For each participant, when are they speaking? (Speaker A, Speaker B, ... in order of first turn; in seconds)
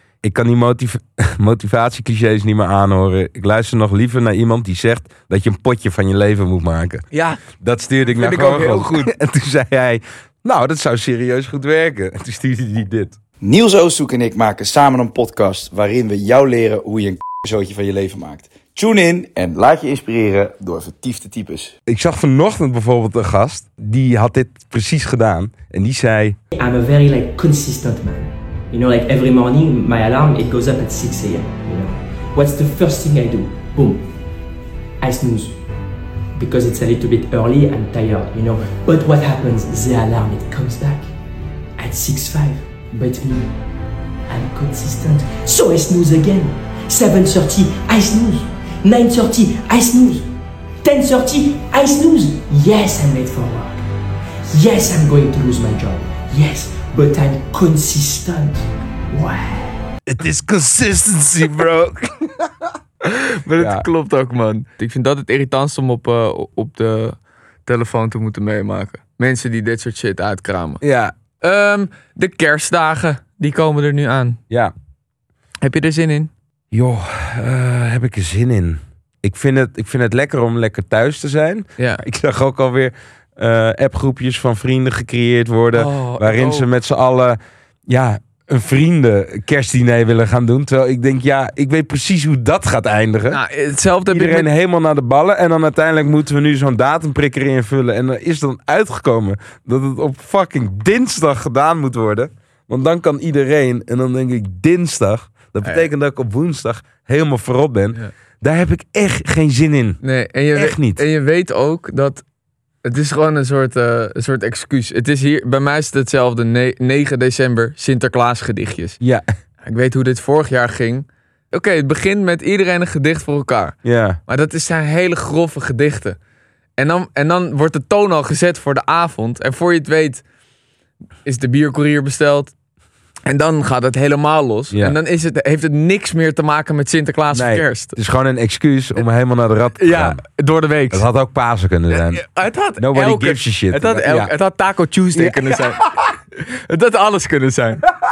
Speaker A: 0.2-13.2, 21.9-26.4, 60.0-62.7, 63.6-63.9, 70.8-71.1, 76.7-93.4, 94.1-110.0, 110.5-111.0, 119.0-119.2, 123.8-124.2, 134.7-135.0, 137.3-140.2, 140.9-142.2, 142.8-144.3, 145.1-146.1
Speaker B: 7.1-7.4, 8.1-9.1, 63.0-70.8, 71.4-74.4, 75.6-76.3, 85.7-86.7, 93.3-94.5, 105.6-105.9, 110.0-112.2, 112.8-119.0, 119.6-123.8, 124.3-126.2, 126.8-130.2, 131.2-132.5, 133.2-137.9, 139.8-141.0, 141.9-145.8, 146.4-147.8
Speaker C: 13.4-21.7
Speaker D: 26.5-34.0, 35.0-35.6, 36.3-41.1, 41.8-43.5, 44.3-50.3, 50.8-53.8, 54.5-59.8